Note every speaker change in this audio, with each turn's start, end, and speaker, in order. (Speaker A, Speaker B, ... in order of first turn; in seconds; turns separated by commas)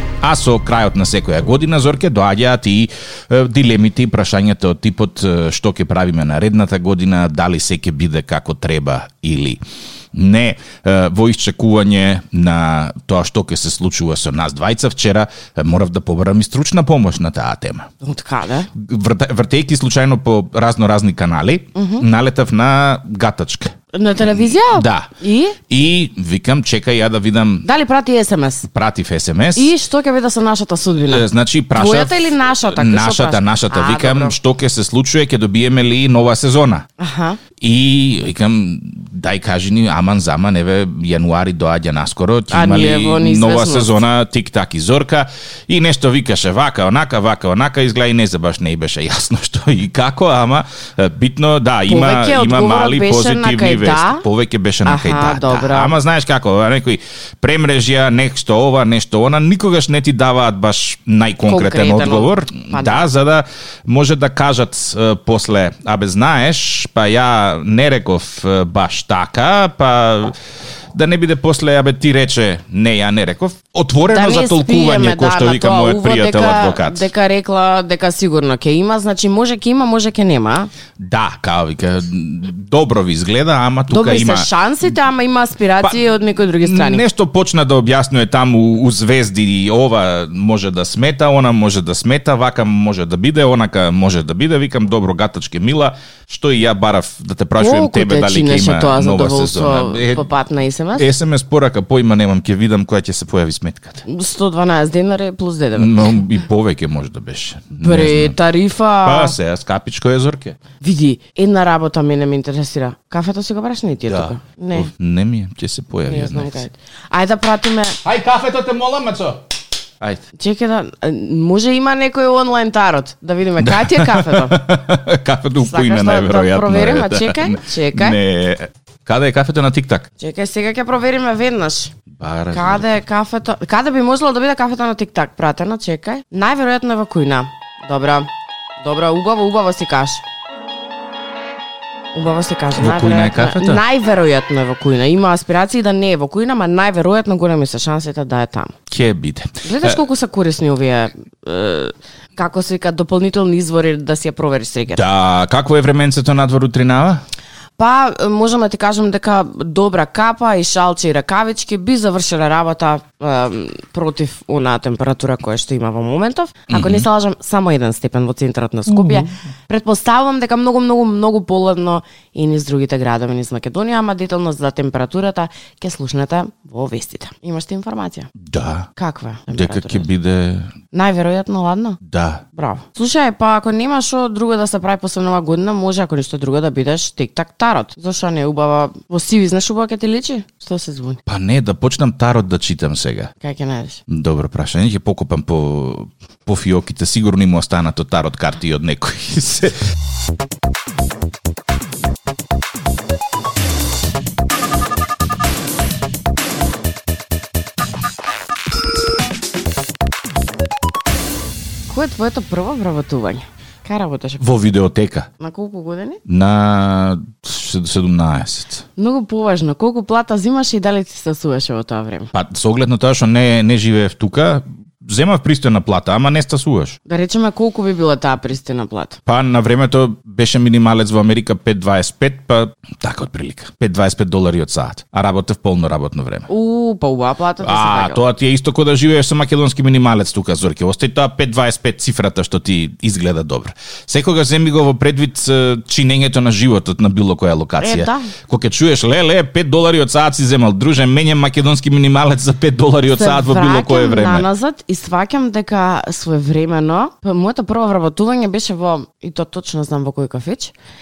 Speaker A: 0.2-9.6, Speaker A: 10.1-17.9, Speaker B: 18.0-18.7, Speaker A: 18.8-25.1, Speaker B: 21.7-22.0, Speaker B: 23.9-25.6, Speaker A: 25.7-27.6, Speaker B: 27.6-28.7, Speaker A: 28.7-29.7, Speaker B: 29.6-34.3, Speaker A: 31.1-36.9, Speaker B: 37.0-37.4, Speaker A: 37.6-70.3, Speaker B: 42.5-44.0, Speaker B: 51.9-54.2, Speaker B: 54.8-55.9, Speaker B: 61.5-63.1, Speaker A: 70.9-77.1, Speaker B: 74.1-80.7, Speaker A: 81.0-84.5, Speaker B: 83.9-87.0, Speaker A: 86.6-100.2, Speaker B: 97.6-101.1, Speaker A: 101.0-104.0, Speaker B: 104.0-106.1, Speaker A: 105.7-108.4, Speaker B: 107.8-109.3, Speaker A: 109.0-110.6, Speaker B: 110.8-114.9, Speaker A: 114.1-116.7, Speaker B: 116.1-118.0, Speaker A: 118.0-119.4, Speaker B: 120.3-124.7, Speaker A: 123.6-130.1, Speaker B: 125.6-128.2, Speaker B: 130.2-131.9, Speaker A: 132.1-132.9, Speaker B: 132.5-138.3, Speaker B: 138.8-140.2, Speaker B: 142.1-148.7, Speaker A: 142.8-143.8, Speaker A: 148.9-150.0, Speaker B: 149.6-155.0, Speaker A: 154.9-157.2, Speaker B: 157.8-178.3, Speaker A: 166.7-167.1, Speaker A: 168.9-169.3, Speaker A: 178.4-178.9, Speaker B: 179.0-180.1, Speaker A: 179.5-180.7, Speaker B: 180.9-182.0, Speaker A: 182.0-182.4, Speaker B: 182.5-191.2, Speaker A: 191.3-193.3, Speaker B: 193.4-194.0, Speaker A: 194.1-199.8, Speaker B: 211.9-214.4, Speaker A: 214.4-215.3, Speaker B: 215.4-216.2, Speaker A: 216.3-218.8, Speaker B: 219.0-222.3, Speaker A: 222.3-227.0, Speaker B: 227.1-229.2, Speaker A: 229.3-236.5, Speaker B: 236.5-238.2, Speaker A: 237.6-254.4, Speaker B: 247.8-248.3, Speaker B: 253.1-260.7